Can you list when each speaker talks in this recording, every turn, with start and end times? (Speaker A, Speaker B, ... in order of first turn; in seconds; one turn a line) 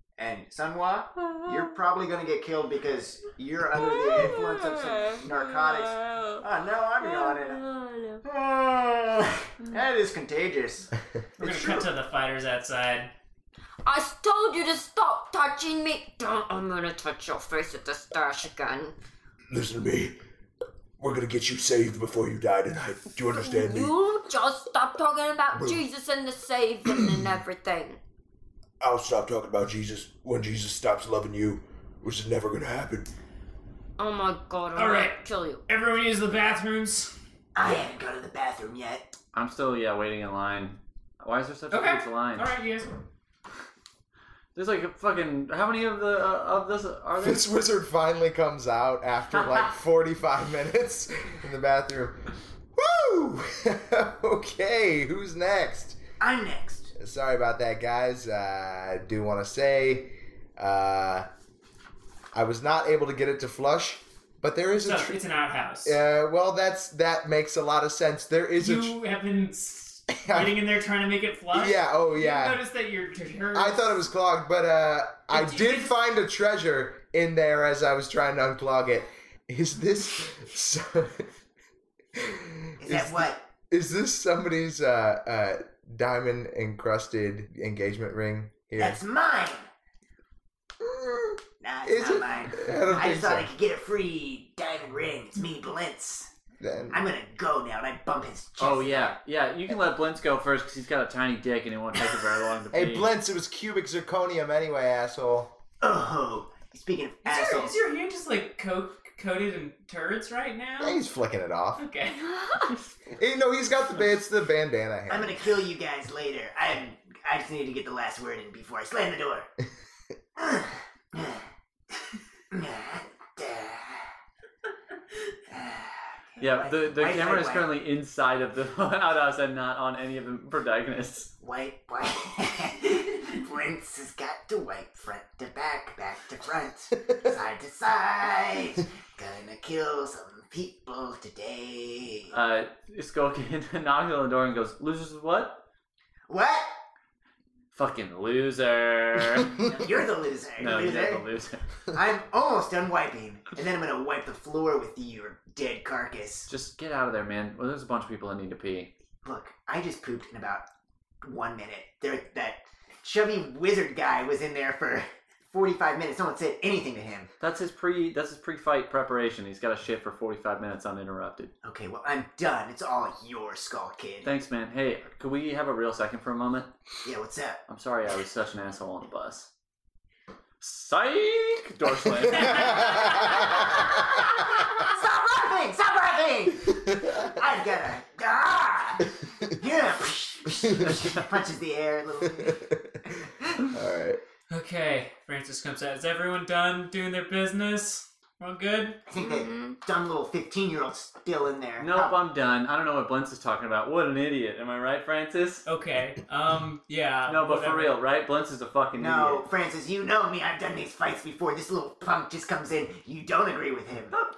Speaker A: 0.2-7.6
Speaker B: 3.9-6.3
Speaker B: 7.0-8.2
Speaker A: 8.2-11.9
Speaker C: 11.4-13.1
Speaker B: 13.8-19.0
Speaker D: 19.5-20.2
Speaker D: 21.0-24.0
Speaker B: 23.4-28.0
Speaker D: 25.5-25.9
Speaker D: 26.9-27.4
Speaker D: 28.8-33.1
Speaker B: 34.0-35.6
Speaker C: 34.8-37.1
Speaker A: 37.5-39.1
Speaker E: 39.3-42.5
Speaker C: 41.7-42.9
Speaker E: 44.5-47.5
Speaker F: 47.2-52.2
Speaker F: 52.8-56.0
Speaker A: 56.2-56.9
Speaker F: 57.0-61.3
Speaker F: 62.3-65.2
Speaker C: 64.8-66.0
Speaker F: 65.8-69.0
Speaker C: 68.6-74.0
Speaker F: 70.2-70.6
Speaker F: 71.5-72.6
Speaker F: 73.5-81.3
Speaker C: 75.3-76.0
Speaker F: 82.1-89.0
Speaker A: 82.8-83.4
Speaker A: 88.8-89.7
Speaker F: 90.8-93.5
Speaker A: 91.6-96.3
Speaker F: 96.6-97.0
Speaker A: 96.9-99.2
Speaker E: 98.6-103.1
Speaker F: 102.7-105.5
Speaker A: 105.8-107.7
Speaker C: 107.2-111.0
Speaker F: 110.8-111.8
Speaker C: 111.8-112.7
Speaker F: 113.1-115.5
Speaker A: 115.1-119.5
Speaker A: 120.4-121.5
Speaker A: 122.5-124.1
Speaker A: 125.5-127.7
Speaker E: 126.4-131.3
Speaker A: 131.4-142.3
Speaker E: 142.3-145.6
Speaker A: 146.3-146.7
Speaker E: 147.7-149.7
Speaker A: 149.6-151.2
Speaker E: 150.6-151.6
Speaker A: 151.9-156.5
Speaker E: 156.5-158.9
Speaker A: 159.2-160.7
Speaker A: 161.2-167.3
Speaker E: 167.4-171.5
Speaker A: 171.6-174.3
Speaker E: 174.2-176.7
Speaker A: 177.0-177.6
Speaker E: 177.7-179.5
Speaker E: 180.6-182.9
Speaker C: 182.4-183.4
Speaker A: 183.1-192.7
Speaker F: 192.3-193.0
Speaker F: 193.7-194.2
Speaker C: 194.5-199.0
Speaker A: 199.1-202.2
Speaker B: 199.1-199.8
Speaker E: 201.8-205.7
Speaker C: 205.7-208.0
Speaker E: 207.3-209.4
Speaker A: 209.0-214.1